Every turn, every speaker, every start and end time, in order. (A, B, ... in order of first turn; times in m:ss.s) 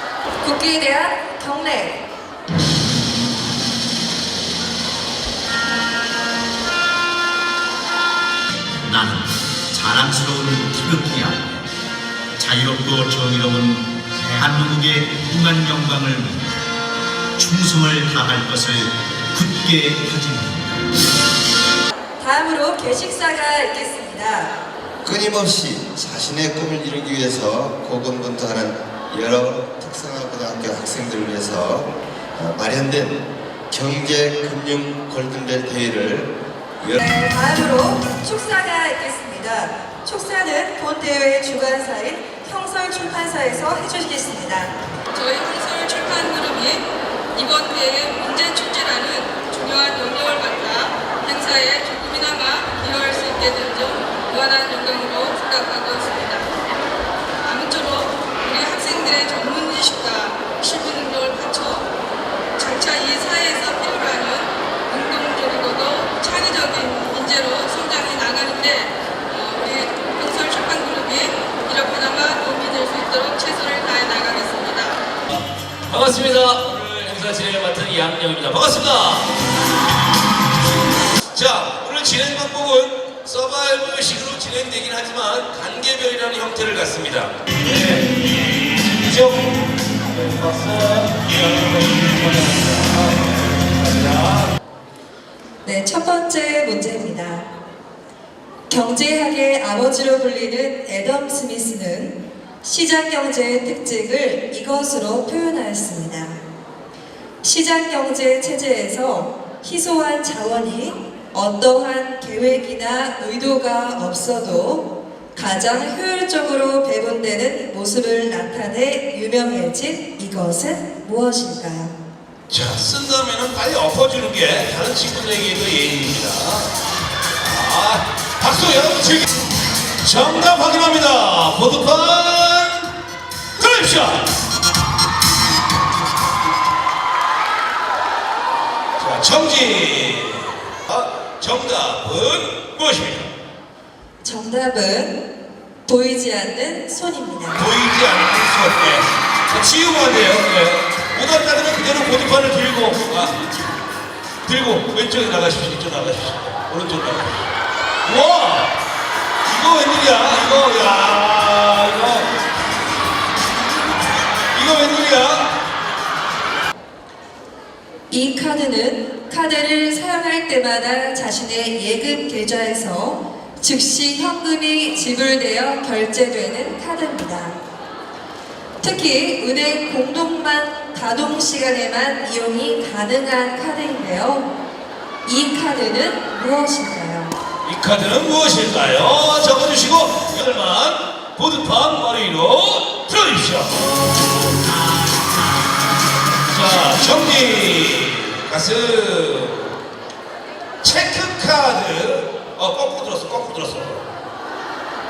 0:00.4-0:02.0 A
0:08.9-0:11.5 B
0:12.4-0:16.4 B
0:17.4-0:20.8 B
0:22.2-0:24.5 A
0:25.0-0:37.0 C
0:37.0-0:44.7 A
0:45.1-0:56.5 D
0:57.5-1:01.9 D
1:02.6-1:15.0 D
1:15.3-1:19.3 E
1:21.3-1:28.2 E
1:29.0-1:34.5 E
1:35.6-1:37.5 A
1:38.7-1:46.4 A
1:47.4-2:02.0 A
2:02.5-2:06.7 E
2:07.4-2:09.3 E
2:10.0-2:12.9 E
2:13.6-2:14.3 E
2:19.0-2:23.3 E
2:24.2-2:25.2 A
2:25.9-2:27.6 A
2:27.6-2:33.4 E
2:34.5-2:37.5 E
2:38.0-2:38.7 E
2:39.5-2:42.3 E
2:44.5-2:45.5 E
2:48.1-2:57.6 A
2:58.8-3:04.5 A
3:05.2-3:07.3 A
3:07.6-3:13.8 E
3:16.5-3:19.8 E
3:20.8-3:24.0 E